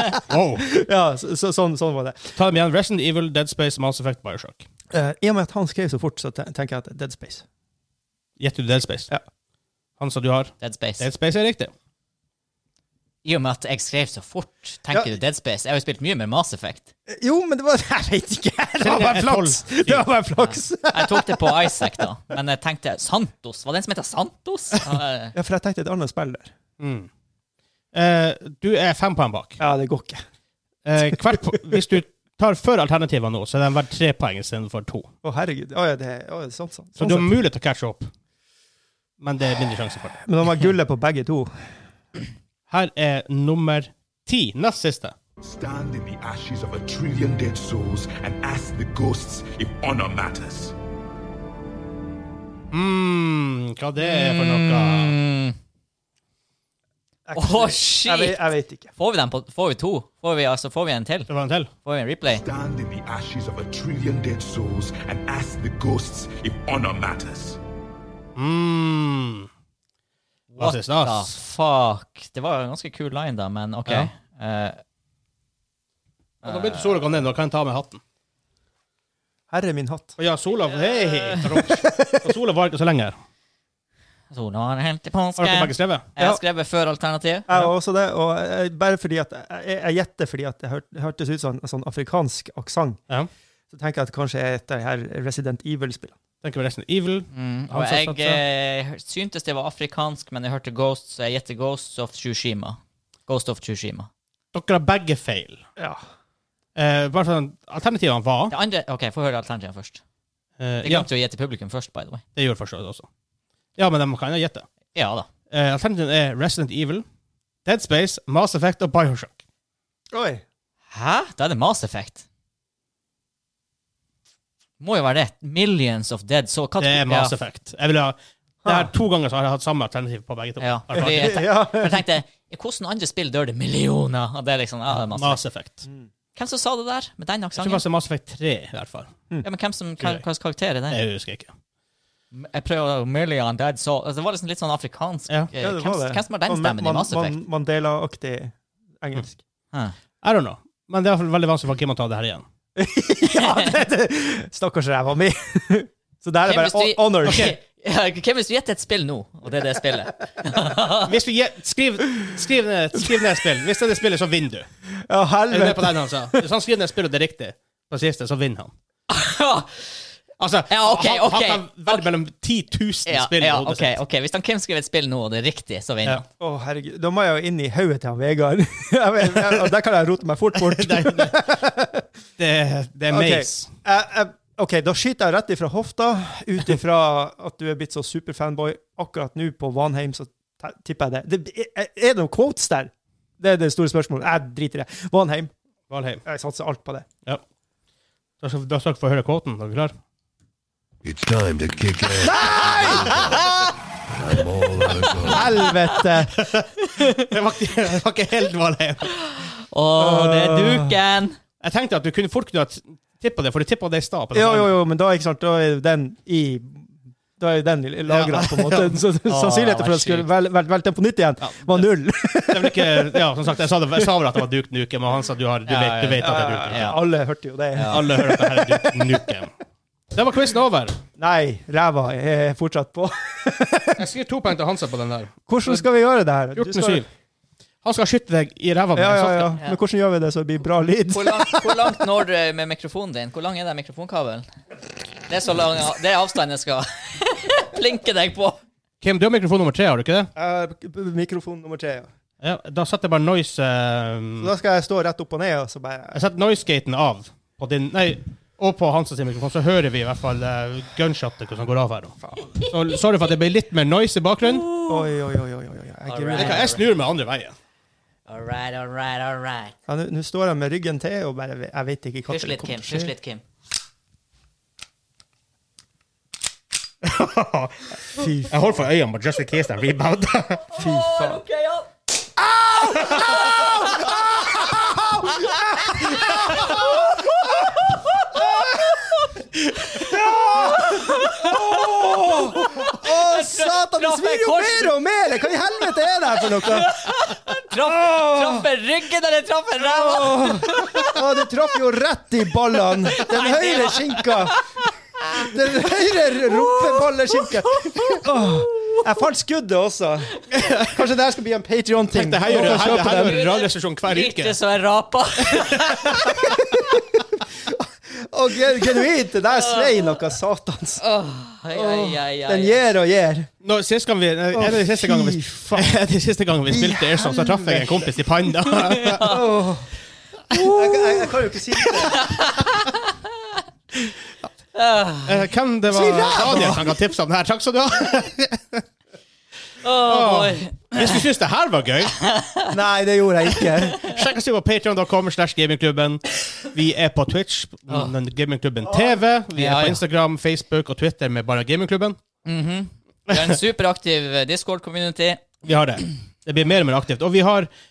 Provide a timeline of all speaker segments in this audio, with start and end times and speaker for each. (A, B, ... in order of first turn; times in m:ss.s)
0:00.3-0:00.7 A
0:00.6-0:02.4 B
0:02.4-0:04.6 A
0:04.9-0:07.4 B
0:08.4-0:09.1 A
0:10.0-0:11.7 A
0:10.6-0:11.1 C
0:13.2-0:16.9 C
0:14.9-0:15.2 B
0:17.1-0:22.0 B
0:18.8-0:20.1 A
0:20.4-0:25.4 C
0:25.3-0:26.5 B
0:26.8-0:27.1 A
0:27.9-0:29.6 A
0:29.6-0:30.2 B
0:30.8-0:35.1 A
0:31.1-0:32.0 B
0:35.2-0:37.4 B
0:37.0-0:38.1 A
0:39.2-0:40.2 A
0:40.2-0:41.5 B
0:42.7-0:45.1 A
0:45.4-0:50.7 D
0:52.7-0:55.2 A
0:54.0-0:55.6 C
0:57.3-0:58.9 B
0:57.4-0:58.4 C
0:59.0-1:01.3 C
1:01.3-1:01.7 A
1:01.8-1:02.4 C
1:02.3-1:07.6 D
1:08.4-1:09.5 A
1:10.5-1:14.8 C
1:10.6-1:11.3 A
1:16.4-1:17.1 C
1:16.4-1:18.0 A
1:19.5-1:20.2 B
1:20.2-1:23.2 A
1:20.8-1:21.4 C
1:24.3-1:27.5 C
1:25.4-1:26.0 A
1:27.5-1:33.0 B
1:33.7-1:36.2 B
1:36.4-1:38.4 A
1:37.3-1:44.1 C
1:44.5-1:45.6 A
1:46.7-1:48.5 A
1:48.5-1:50.0 C
1:50.6-1:51.1 A
1:50.8-1:52.2 C
1:52.4-1:53.1 A
1:53.8-1:54.7 A
1:55.0-1:55.3 C
1:55.5-1:57.0 A
1:57.6-1:59.4 A
2:00.1-2:00.4 B
2:00.9-2:02.2 C
2:04.8-2:07.3 C
2:06.8-2:11.4 A
2:08.6-2:08.9 B
2:10.6-2:15.4 C
2:10.9-2:12.0 B
2:15.1-2:15.8 A
2:16.4-2:17.8 C
2:17.6-2:19.1 A
2:19.4-2:21.0 C
2:20.9-2:21.5 A
2:22.3-2:27.4 C
2:25.6-2:29.4 B
2:30.2-2:32.4 A
2:32.8-2:37.6 B
2:36.5-2:41.1 C
2:37.2-2:37.6 A
2:41.0-2:44.7 A
2:45.1-2:46.4 B
2:45.5-2:48.7 A
2:49.1-2:50.0 C
2:50.4-2:54.0 A
2:50.7-2:52.1 C
2:53.1-2:56.2 C
2:56.4-3:02.1 B
3:00.6-3:01.4 A
3:02.4-3:03.7 A
3:03.1-3:15.5 B
3:15.9-3:16.2 A
3:16.2-3:17.1 B
3:18.4-3:19.9 A
3:21.0-3:23.4 E
3:22.2-3:23.3 B
3:24.2-3:25.4 E
3:25.2-3:26.4 B
3:26.3-3:29.1 A
3:29.1-3:31.4 C
3:30.0-3:31.0 B
3:31.6-3:34.8 A
3:34.3-3:43.3 B
3:38.1-3:39.0 A
3:39.3-3:40.3 C
3:41.4-3:41.9 A
3:42.5-3:47.0 A
3:45.7-3:47.0 C
3:46.2-3:49.2 B
3:47.7-3:48.0 C
3:47.9-3:49.5 A
3:50.1-3:51.0 A
3:51.2-3:54.0 B
3:54.0-3:55.8 A
3:55.5-3:57.1 B
3:56.5-3:57.1 A
3:57.8-3:59.6 A
3:59.0-4:02.0 B
4:01.1-4:04.4 C
4:05.3-4:08.6 C
4:09.0-4:10.3 A
4:10.4-4:12.1 B
4:12.4-4:14.5 A
4:14.4-4:16.2 B
4:16.1-4:24.7 A
4:22.2-4:22.5 B
4:24.4-4:25.0 C
4:24.9-4:26.8 B
4:26.1-4:26.8 C
4:26.4-4:27.6 A
4:28.3-4:29.7 C
4:29.9-4:33.1 B
4:32.3-4:33.4 C
4:37.0-4:37.9 A
4:38.1-4:38.7 B
4:38.5-4:40.7 A
4:40.7-4:41.9 C
4:40.8-4:41.4 B
4:42.7-4:47.2 B
4:42.8-4:43.3 A
4:43.0-4:44.6 C
4:45.3-4:55.0 C
4:50.0-4:57.0 B
4:56.5-5:01.2 C
4:57.7-4:58.7 B
4:59.8-5:04.6 B
5:02.9-5:05.5 C
5:05.3-5:13.4 B
5:06.3-5:09.0 C
5:10.6-5:10.9 A
5:12.1-5:14.6 A
5:12.4-5:17.0 C
5:16.2-5:17.0 B
5:17.6-5:21.0 B
5:19.6-5:20.2 C
5:21.0-5:22.8 C
5:21.7-5:23.5 B
5:23.6-5:29.3 A
5:24.5-5:26.0 B
5:26.7-5:28.0 B
5:29.0-5:29.4 C
5:29.2-5:29.9 B
5:30.5-5:31.3 C
5:30.5-5:32.4 B
5:31.8-5:33.0 C
5:34.7-5:35.4 C
5:35.2-5:38.8 A
5:35.9-5:36.9 B
5:39.8-5:41.2 C
5:40.0-5:42.2 A
5:42.2-5:42.8 C
5:42.7-5:44.0 B
5:44.0-5:52.2 A
5:49.6-5:50.0 C
5:52.4-5:55.4 C
5:53.3-5:53.6 A
5:55.6-5:57.7 A